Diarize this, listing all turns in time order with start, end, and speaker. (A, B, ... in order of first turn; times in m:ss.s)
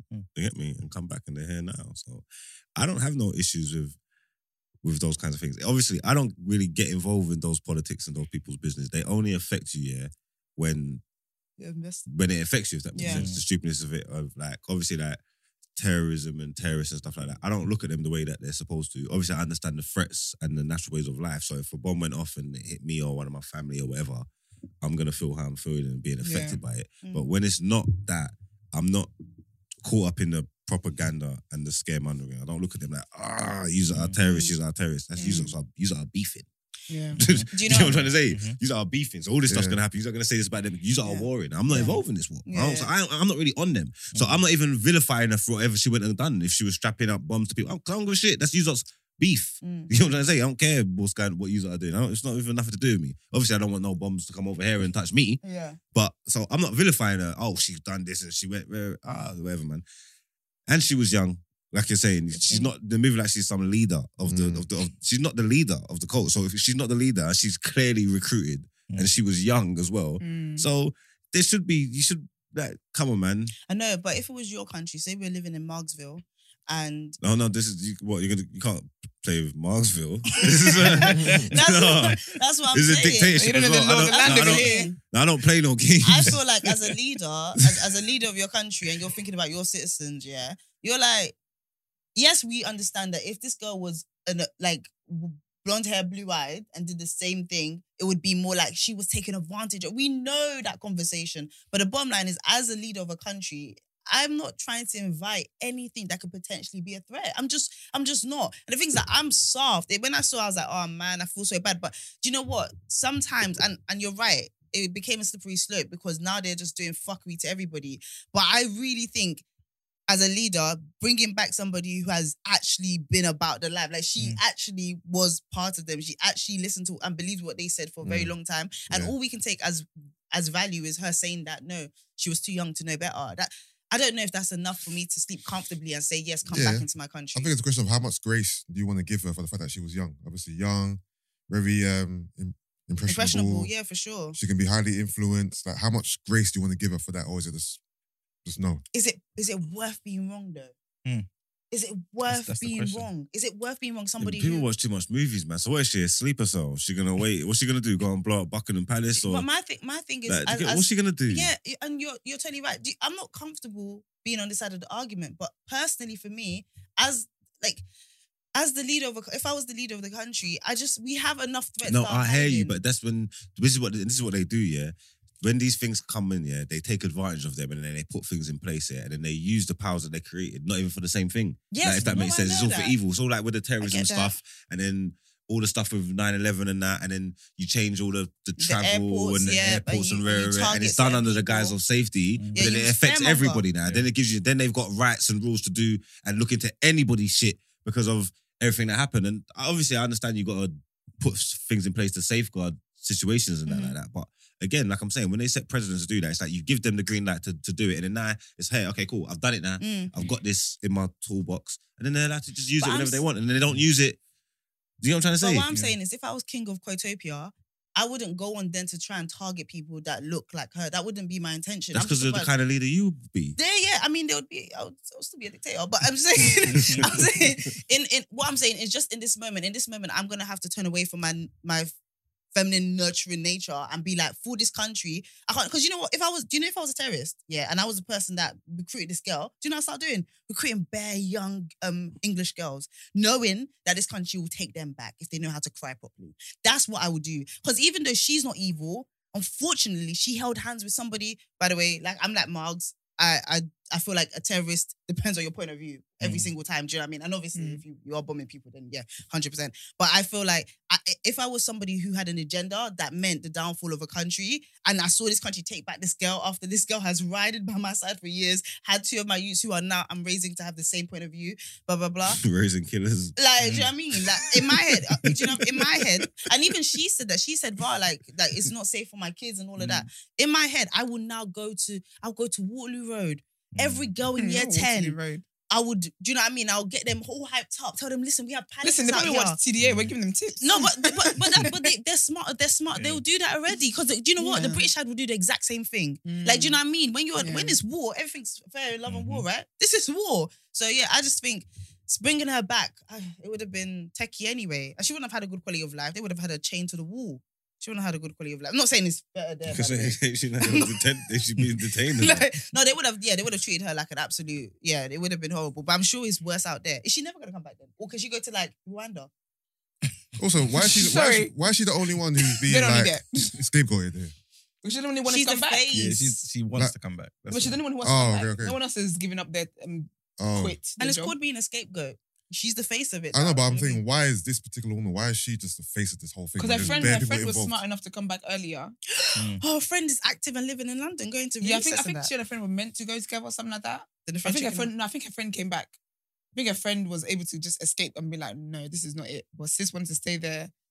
0:00.3-0:04.0 A
0:04.8-0:11.0 A
0:11.6-0:12.0 B
0:12.1-0:15.2 A
0:12.9-0:13.2 B
0:13.1-0:13.4 C
0:15.8-0:24.2 A
0:24.8-0:29.1 A
0:26.2-0:26.6 D
0:27.0-0:27.3 B
0:29.8-0:36.5 A
0:33.9-0:34.2 C
0:34.2-0:34.6 B
0:35.2-0:35.5 B
0:36.9-0:37.2 D
0:37.2-0:38.6 C
0:37.2-0:55.4 A
0:37.5-0:38.1 B
0:39.5-0:39.8 E
0:41.0-0:42.9 B
0:44.1-0:44.4 C
0:49.6-0:49.9 B
0:55.4-0:55.8 B
0:55.9-0:59.8 A
1:00.7-1:13.5 A
1:02.3-1:02.7 B
1:04.2-1:04.6 E
1:10.2-1:10.7 D
1:13.7-1:17.2 B
1:17.2-1:26.7 A
1:20.4-1:25.0 B
1:23.4-1:24.9 D
1:26.0-1:31.3 B
1:27.6-1:27.8 A
1:32.1-1:59.4 B
2:00.1-2:17.5 B
2:16.5-2:23.7 E
2:23.1-2:24.4 B
2:24.3-2:27.8 E
2:28.4-2:28.8 E
2:28.9-2:30.7 B
2:31.7-2:34.7 B
2:32.2-2:33.1 C
2:34.2-2:39.4 A
2:39.2-2:47.8 B
2:40.3-2:41.5 A
2:48.5-2:52.8 B
2:51.8-3:34.2 A
3:01.7-3:03.0 B
3:03.8-3:04.3 B
3:08.6-3:11.8 B
3:12.3-3:12.7 C
3:12.5-3:13.6 B
3:23.6-3:24.0 B
3:29.8-3:30.2 B
3:32.8-3:33.2 B
3:35.0-3:35.7 A
3:35.4-3:42.5 B
3:35.7-3:35.9 C
3:41.9-3:43.6 A
3:43.6-3:51.9 B
3:46.7-3:47.1 C
3:52.5-4:32.4 B
4:16.2-4:16.5 C
4:17.5-4:17.8 D
4:32.3-4:33.4 A
4:33.4-4:45.2 B
4:33.6-4:33.9 C
4:39.8-4:40.1 C
4:43.7-4:44.1 C
4:44.4-4:45.4 D
4:45.7-4:49.6 B
4:48.8-4:51.8 D
4:49.8-4:50.1 C
4:50.6-5:19.3 B
4:52.9-4:53.2 C
4:54.4-4:54.9 D
4:56.2-4:56.8 D
4:57.4-4:57.8 D
4:59.1-4:59.4 C
5:09.6-5:12.4 A
5:20.4-5:24.3 E
5:20.8-5:21.5 D
5:22.6-5:23.6 D
5:24.8-5:25.8 D
5:25.3-5:26.4 B
5:25.9-5:27.8 C
5:27.5-5:31.3 D
5:28.0-5:28.8 E
5:30.4-5:30.8 E
5:31.0-5:34.0 B
5:33.3-5:37.8 E
5:36.6-5:38.9 D
5:36.7-5:37.2 C
5:39.1-5:42.3 B
5:39.4-5:39.6 C
5:41.6-5:45.9 D
5:44.2-5:44.9 B
5:46.5-5:50.7 D